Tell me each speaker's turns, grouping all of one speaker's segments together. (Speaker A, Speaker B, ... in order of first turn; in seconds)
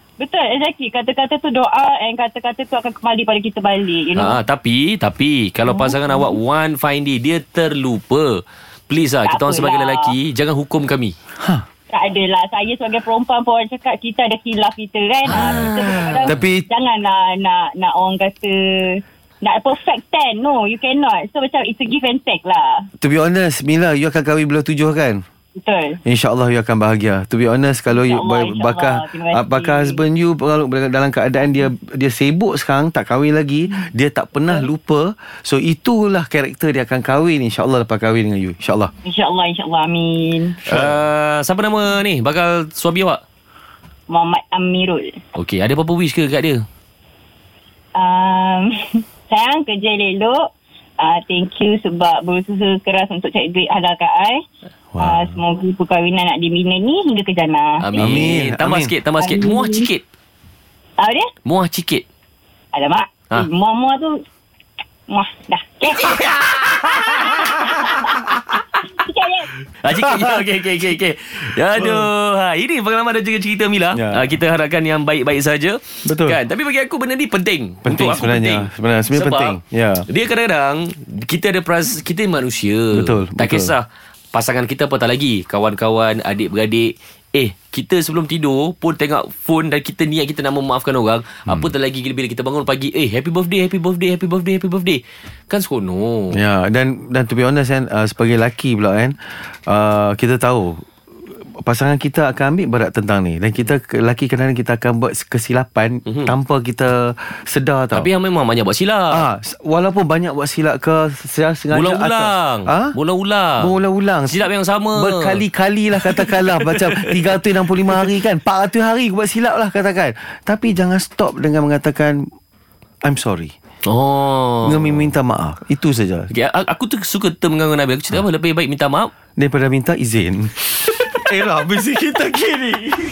Speaker A: 0.2-4.4, 5.7-6.3, 9.2-10.2, 11.9-22.9, 25.6-26.0, 27.9-30.0, 39.0-40.6, 44.1-45.2, 48.0-54.5, 55.0-57.9, 59.2-59.9, 61.0-61.3, 62.7-64.2, 65.1-69.5
Speaker B: 4.1-11.2, 15.3-16.3, 40.7-43.2, 45.4-46.7, 57.8-60.0, 61.5-62.0, 66.1-68.4, 69.8-79.6, 80.1-96.4, 106.1-106.3, 107.9-109.3, 111.7-113.7, 114.3-115.4, 116.1-117.0, 123.9-125.1, 126.3-129.1, 130.9-131.2, 132.0-132.9
Speaker C: 15.3-16.7, 23.0-25.2, 26.1-38.9, 54.9-55.4, 58.0-58.9, 70.0-70.4, 71.8-72.1, 73.9-74.3, 76.0-76.4, 77.8-80.1, 82.9-83.8, 96.3-100.8, 101.5-108.1, 109.1-113.0, 113.6-114.4, 115.0-122.2, 123.0-123.5, 124.6-126.3, 129.4-132.8